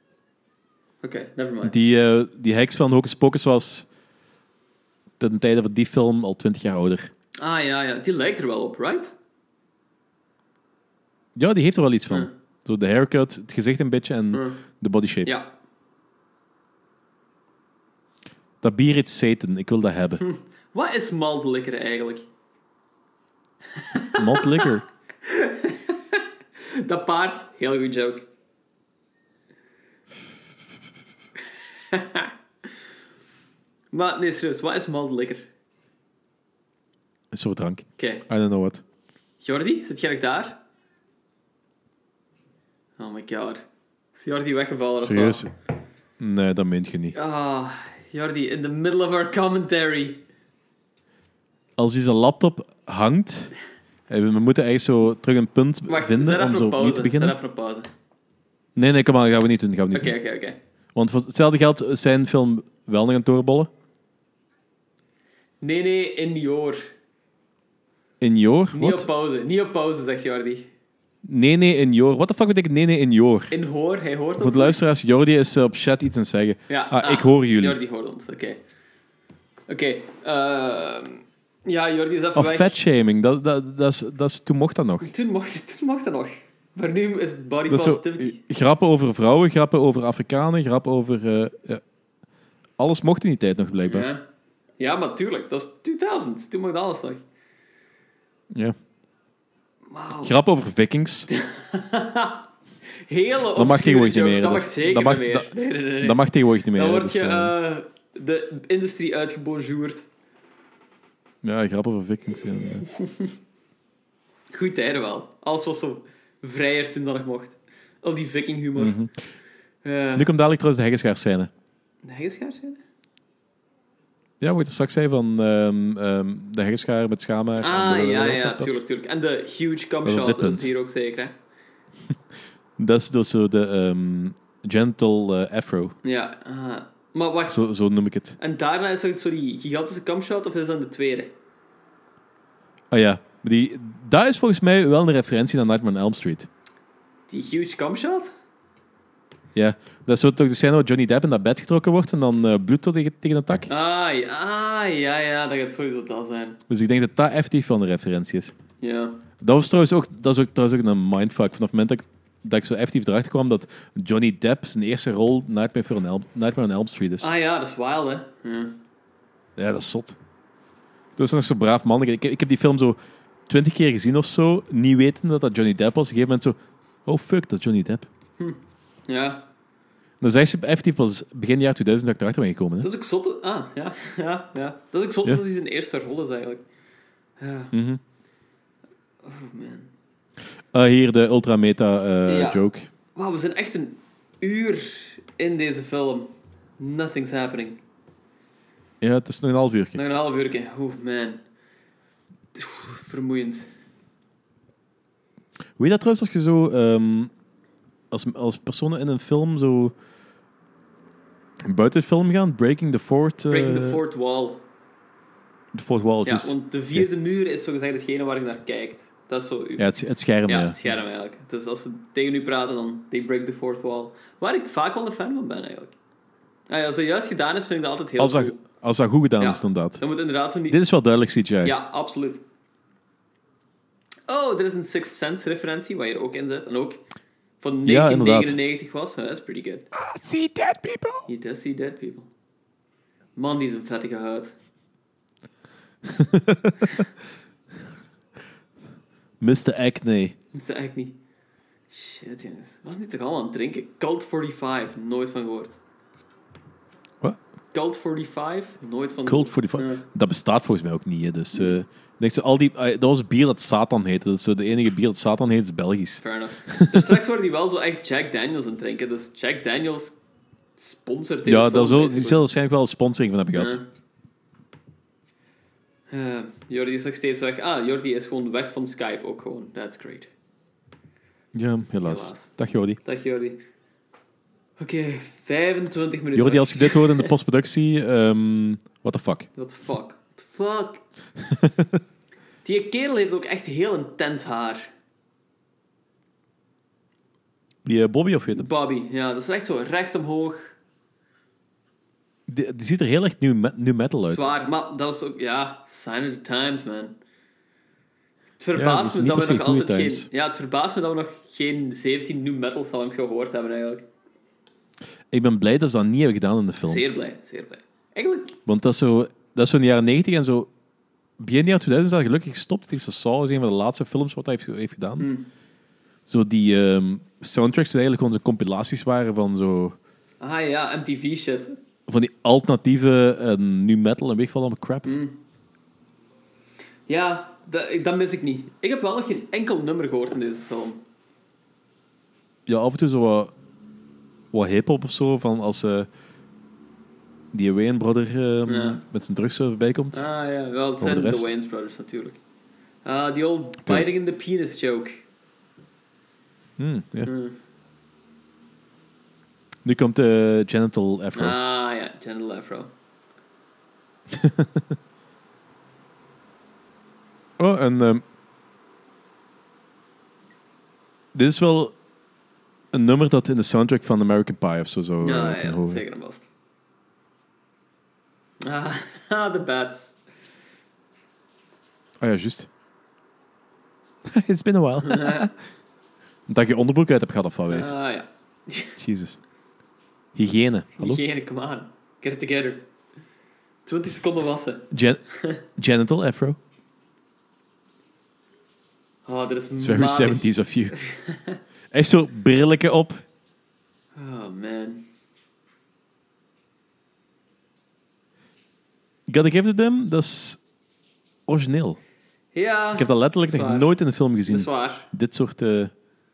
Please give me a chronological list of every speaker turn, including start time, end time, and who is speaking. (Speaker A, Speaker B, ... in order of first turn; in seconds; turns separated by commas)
Speaker A: 1.0-1.8, Speaker B: 1.6-3.9, Speaker B: 5.2-7.1, Speaker A: 7.4-9.1, Speaker B: 11.3-15.3, Speaker A: 14.3-14.6, Speaker A: 15.2-15.5, Speaker B: 18.6-20.2, Speaker A: 20.2-22.2, Speaker A: 23.9-24.7, Speaker B: 24.1-24.8, Speaker A: 25.2-28.2, Speaker A: 31.9-32.3, Speaker A: 33.9-35.5, Speaker B: 37.3-38.8, Speaker A: 38.0-38.2, Speaker A: 39.4-40.6, Speaker A: 43.0-43.6, Speaker A: 44.1-45.5, Speaker B: 45.0-45.5, Speaker B: 46.2-47.1, Speaker A: 47.1-50.2, Speaker B: 51.8-53.5, Speaker B: 54.1-57.4, Speaker A: 55.9-57.9, Speaker B: 58.8-60.2, Speaker A: 59.9-60.6, Speaker B: 60.9-63.7, Speaker A: 65.6-66.8, Speaker B: 68.2-69.1, Speaker A: 68.7-70.7, Speaker B: 71.2-73.5, Speaker A: 73.5-74.8, Speaker B: 74.4-77.8, Speaker A: 76.7-78.6, Speaker A: 79.7-82.8, Speaker B: 82.3-85.1, Speaker A: 85.0-88.4, Speaker B: 87.7-91.8, Speaker B: 92.8-94.1, Speaker A: 93.8-94.2, Speaker A: 94.8-97.2, Speaker B: 98.5-98.8, Speaker A: 99.9-100.3, Speaker B: 100.2-101.3, Speaker A: 101.3-102.4, Speaker A: 103.0-110.0, Speaker B: 103.5-107.5, Speaker B: 111.4-112.9, Speaker A: 114.5-118.9, Speaker B: 118.8-119.1, Speaker A: 119.8-120.3, Speaker B: 120.2-121.5, Speaker A: 122.0-122.8, Speaker B: 124.4-128.7, Speaker A: 127.6-131.3, Speaker B: 130.0-130.7, Speaker B: 132.8-135.9, Speaker A: 136.0-137.7, Speaker B: 137.5-138.4, Speaker A: 138.4-141.3, Speaker B: 142.9-146.5, Speaker A: 147.3-148.3, Speaker B: 149.5-153.7, Speaker A: 153.7-156.6, Speaker B: 156.7-158.5, Speaker A: 158.8-159.2, Speaker B: 159.4-167.3, Speaker A: 167.2-168.8, Speaker B: 169.6-170.2, Speaker B: 171.2-178.1, Speaker A: 178.4-179.4, Speaker B: 180.2-182.9, Speaker A: 182.8-186.6, Speaker A: 187.4-187.7, Speaker B: 187.7-188.0, Speaker A: 189.2-189.9, Speaker B: 190.7-192.9, Speaker A: 192.3-192.6, Speaker A: 193.1-197.8, Speaker B: 199.0-200.0, Speaker A: 199.9-201.4, Speaker A: 202.5-203.7, Speaker B: 205.8-207.3, Speaker B: 208.1-209.9, Speaker B: 211.6-214.0, Speaker A: 213.5-214.6, Speaker B: 215.7-217.1, Speaker A: 216.2-219.9, Speaker B: 219.8-220.9, Speaker A: 220.4-225.9, Speaker A: 226.7-228.6, Speaker B: 228.2-230.0, Speaker A: 229.4-230.8, Speaker B: 230.7-231.8, Speaker A: 231.6-232.4, Speaker A: 234.3-237.0, Speaker A: 237.6-239.9, Speaker B: 237.8-238.6, Speaker B: 239.9-241.3, Speaker A: 241.3-242.3, Speaker A: 243.3-244.5, Speaker B: 246.1-246.9, Speaker B: 249.4-250.3, Speaker A: 250.5-251.2, Speaker A: 251.9-255.8, Speaker A: 257.7-260.1, Speaker B: 259.2-267.2, Speaker A: 266.2-270.2, Speaker A: 270.8-272.4, Speaker B: 271.4-273.8, Speaker A: 273.5-273.9, Speaker A: 276.1-280.3, Speaker B: 281.5-283.0, Speaker A: 282.0-282.5, Speaker A: 283.0-283.6, Speaker A: 284.8-287.3, Speaker B: 286.3-289.5, Speaker A: 289.6-291.0, Speaker B: 291.5-291.9, Speaker A: 292.6-294.9, Speaker B: 297.8-298.7, Speaker A: 298.5-300.7, Speaker B: 302.5-304.5, Speaker A: 304.3-307.1, Speaker A: 308.6-314.0, Speaker B: 308.7-310.3, Speaker B: 315.3-317.0, Speaker A: 316.9-318.6, Speaker B: 318.6-320.7, Speaker B: 321.4-325.3, Speaker A: 325.2-325.5, Speaker B: 326.3-329.9, Speaker A: 330.4-331.8, Speaker B: 332.1-335.1, Speaker A: 335.0-335.4, Speaker A: 337.1-341.0, Speaker B: 342.7-343.5, Speaker B: 344.5-346.1, Speaker B: 347.5-350.2, Speaker A: 348.7-349.0, Speaker A: 350.1-352.4, Speaker B: 351.0-351.5, Speaker A: 353.0-355.2, Speaker B: 356.8-357.3, Speaker A: 357.2-357.6, Speaker B: 359.8-361.6, Speaker A: 361.4-362.9, Speaker B: 364.3-364.9, Speaker B: 367.6-368.2, Speaker B: 371.3-371.9, Speaker B: 372.9-376.0, Speaker A: 375.2-376.5, Speaker A: 378.6-380.1, Speaker B: 382.2-382.7, Speaker B: 384.2-385.5, Speaker A: 385.0-385.5, Speaker B: 386.5-387.9, Speaker A: 387.7-389.0, Speaker B: 389.0-389.4, Speaker B: 390.3-391.2, Speaker A: 391.0-392.9, Speaker A: 393.9-395.6, Speaker B: 394.9-395.2, Speaker B: 395.7-396.6, Speaker A: 399.2-401.6, Speaker B: 399.8-401.0, Speaker B: 401.9-403.2, Speaker A: 404.1-405.1, Speaker B: 409.3-410.6, Speaker B: 411.5-412.0, Speaker A: 412.5-413.9, Speaker B: 412.9-415.9, Speaker A: 414.5-415.1